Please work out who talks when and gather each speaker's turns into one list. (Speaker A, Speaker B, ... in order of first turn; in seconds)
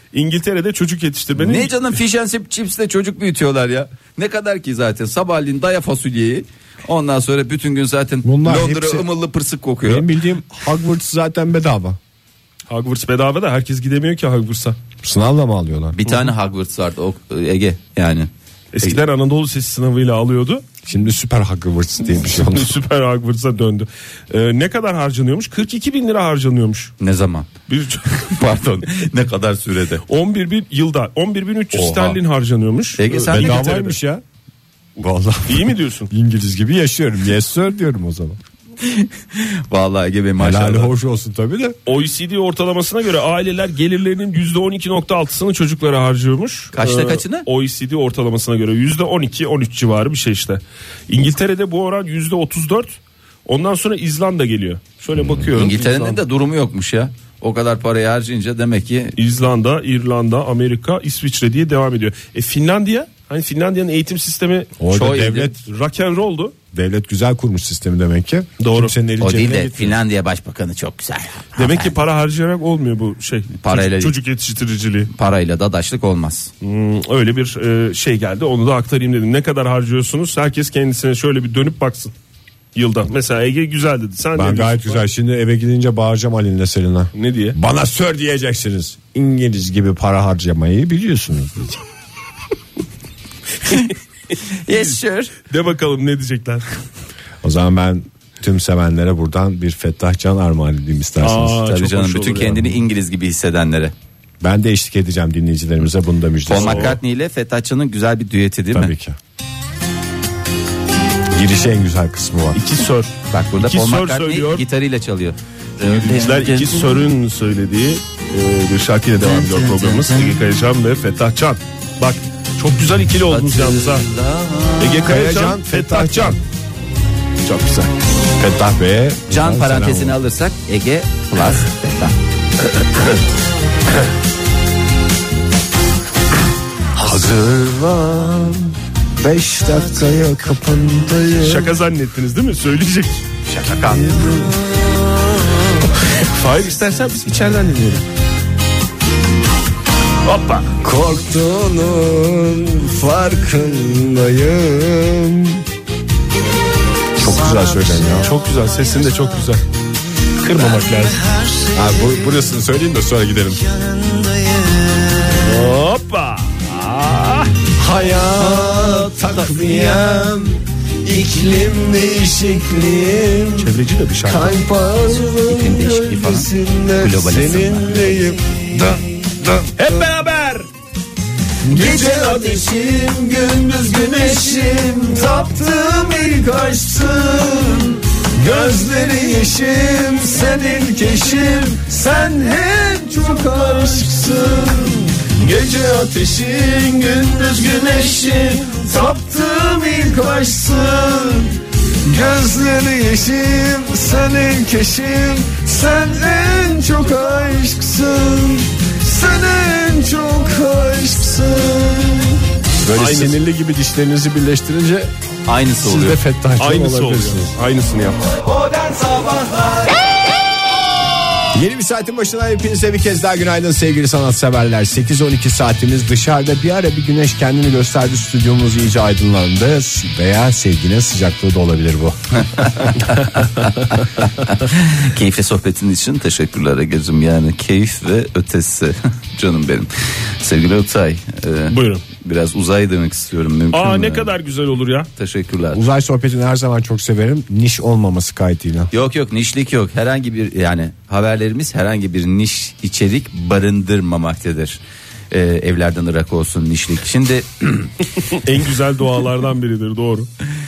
Speaker A: 0.1-1.8, 12.7-14.8, 18.7-20.6, 22.3-26.9, 27.7-28.3, 30.1-34.0, 35.5-36.1, 41.9-56.2, 59.2-64.8, 65.6-66.5, 68.6-68.9, 71.6-75.1, 76.6-82.1, 82.8-85.0, 87.2-87.6, 95.5-96.7, 101.2-102.7, 106.6-107.0, 112.5-114.7, 115.8-124.1, 124.8-126.4, 127.5-127.9, 141.4-143.2, 146.0-148.1, 150.2-150.8, 158.2-159.6, 160.4-161.2, 165.4-167.6, 173.6-174.6, 179.7-180.7, 212.9-213.4, 216.6-218.3, 241.7-242.0, 243.7-245.1, 258.3-260.3
Speaker B: 1.4-10.1, 15.9-18.3, 27.0-27.5, 28.1-30.0, 31.7-32.2, 33.0-33.8, 38.8-40.9, 46.7-47.5, 55.5-59.2, 64.9-65.5, 69.2-71.9, 73.6-74.2, 75.1-76.5, 93.7-93.9, 94.5-95.3, 101.6-103.9, 106.5-108.9, 113.3-117.0, 119.2-120.4, 123.3-125.1, 129.3-132.2, 143.5-144.2, 175.5-178.3, 215.5-216.2, 232.5-244.3, 245.2-245.8, 248.9-254.8, 255.3-257.9
Speaker C: 8.2-9.1, 9.8-12.0, 15.0-16.0, 20.9-22.7, 33.3-34.2, 35.0-38.4, 40.4-41.8, 55.2-55.5, 64.8-65.6, 66.7-70.0, 84.3-91.8, 97.4-101.6, 104.4-107.0, 108.7-109.2, 111.3-112.6, 125.0-126.4, 128.4-130.2, 136.9-141.7, 143.7-145.9, 150.8-155.6, 157.2-158.3, 161.6-165.6, 167.8-173.7, 174.2-180.1, 181.6-215.1, 215.8-217.5, 218.6-219.8, 221.5-232.9, 245.7-248.9